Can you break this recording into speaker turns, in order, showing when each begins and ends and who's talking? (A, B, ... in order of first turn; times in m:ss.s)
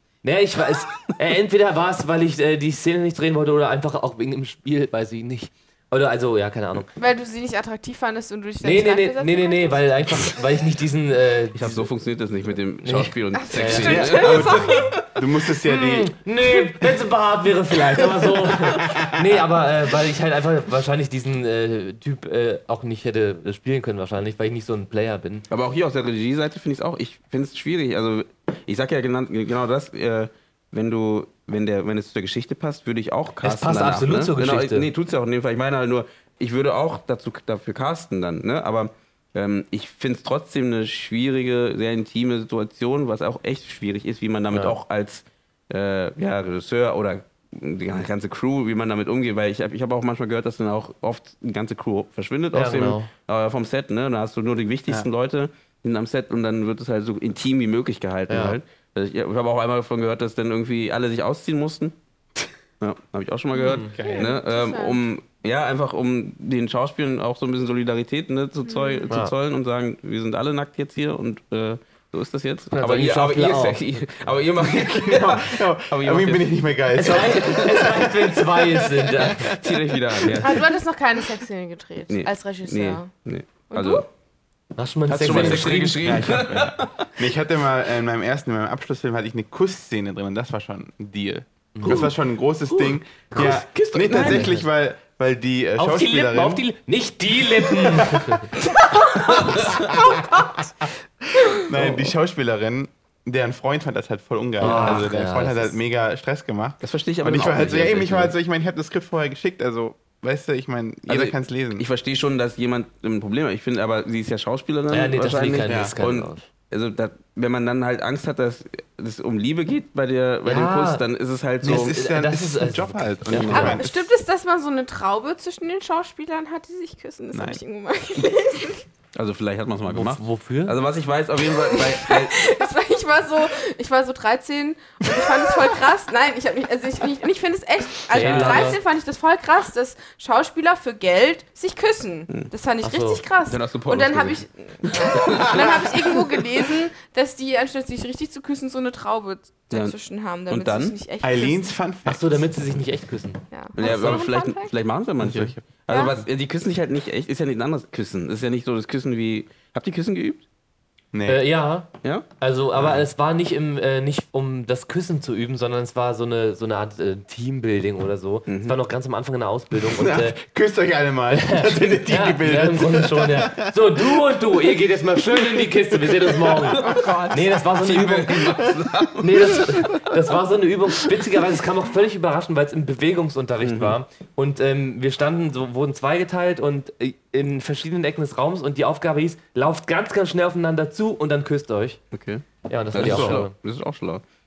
0:00.2-0:06.9 A
0:07.0-0:09.9 B
0:08.6-0:11.9 A
0:11.5-0:15.0 C
0:12.8-0:14.1 A
0:13.3-0:14.9 B
0:13.8-0:16.1 D
0:15.7-0:25.4 A
0:18.8-0:19.0 D
0:25.5-1:01.9 C
0:33.4-0:34.9 A
0:44.5-0:44.8 A
0:52.5-0:53.1 A
0:58.3-0:58.6 A
1:02.8-1:17.8 C
1:03.5-1:05.0 B
1:03.6-1:03.9 A
1:03.9-1:04.4 D
1:08.6-1:09.1 B
1:12.7-1:13.8 A
1:14.6-1:20.4 D
1:16.9-1:19.5 A
1:19.3-1:20.7 C
1:20.4-1:23.1 B
1:22.1-1:24.0 C
1:23.7-1:24.0 B
1:24.8-1:26.3 A
1:25.1-1:27.1 C
1:25.2-1:36.6 D
1:31.8-1:32.1 A
1:31.8-1:32.1 C
1:32.7-1:34.5 C
1:34.2-1:34.6 A
1:35.8-1:38.5 A
1:37.7-1:38.5 D
1:39.1-1:40.1 C
1:39.3-1:51.8 D
1:41.7-1:42.1 C
1:44.6-1:45.8 A
1:44.6-1:45.1 C
1:46.8-1:48.3 C
1:51.1-2:02.0 C
1:54.9-1:56.5 A
1:55.7-1:55.9 D
2:00.4-2:01.0 A
2:01.6-2:04.1 D
2:01.7-2:03.8 A
2:03.3-2:03.8 C
2:03.5-2:08.8 B
2:07.3-2:07.6 D
2:09.2-2:12.5 C
2:09.9-2:10.7 A
2:11.5-2:31.7 B
2:18.1-2:18.8 A
2:18.2-2:18.8 C
2:22.8-2:23.2 A
2:23.4-2:25.9 C
2:25.2-2:25.6 D
2:29.7-2:30.0 C
2:30.5-2:30.9 C
2:31.2-2:32.5 D
2:32.0-2:33.4 A
2:33.5-2:34.7 B
2:33.8-2:40.4 C
2:35.2-2:35.6 D
2:35.9-2:36.2 B
2:41.1-2:41.4 D
2:41.2-2:50.4 A
2:48.5-2:48.7 C
2:49.9-2:54.2 D
2:51.3-2:58.6 A
2:56.5-2:59.6 C
2:56.8-2:57.1 B
2:59.2-3:12.0 A
2:59.5-3:00.1 D
3:03.6-3:04.0 C
3:12.1-3:14.2 C
3:12.6-3:13.5 A
3:13.0-3:13.4 D